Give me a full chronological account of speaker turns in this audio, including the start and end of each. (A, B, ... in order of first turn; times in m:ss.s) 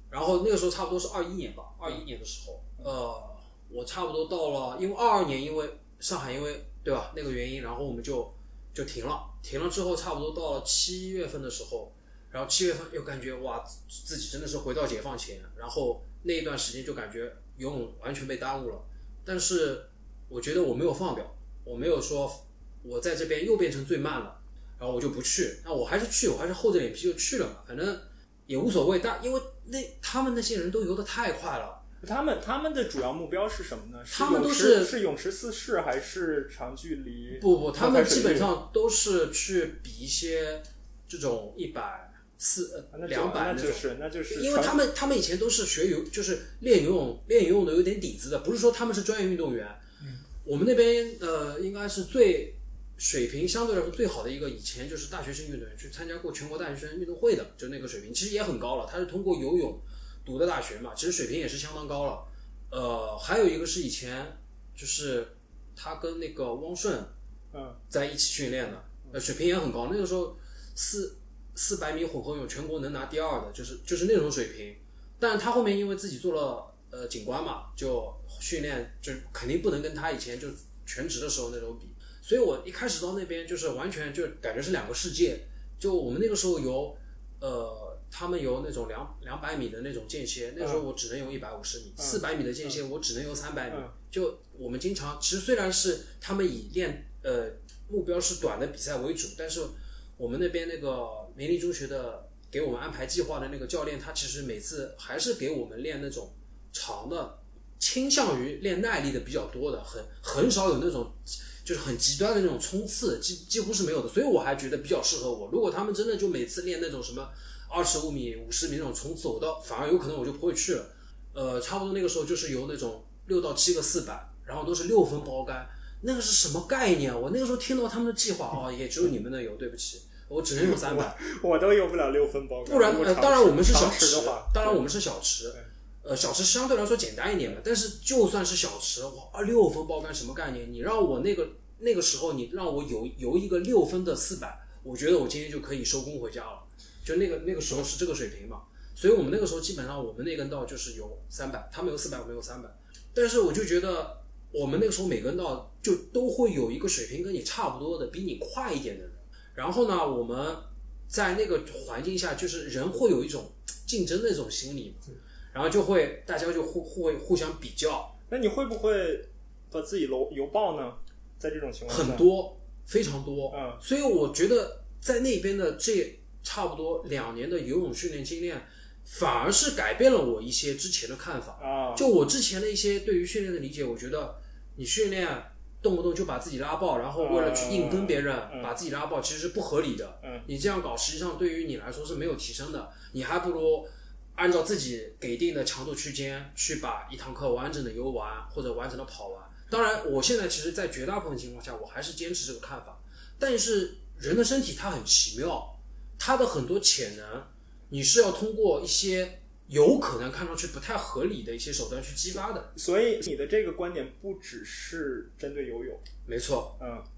0:00.1-0:31.8 A
0:32.0-0:38.5 B
0:34.1-0:34.9 A
0:37.4-0:49.8 A
0:42.9-0:44.8 B
0:50.4-1:07.1 A
1:07.5-1:07.8 B
1:07.9-2:11.2 A
1:30.6-1:30.8 B
1:32.0-1:32.8 B
2:10.6-2:14.9 B
2:12.6-2:48.1 A
2:48.3-2:52.3 B
2:51.9-3:32.7 A
2:53.5-2:53.8 B
3:01.6-3:02.1 B
3:07.2-3:08.7 B
3:10.2-3:10.5 B
3:32.7-3:36.0 B
3:36.2-3:36.8 A
3:36.8-3:37.0 B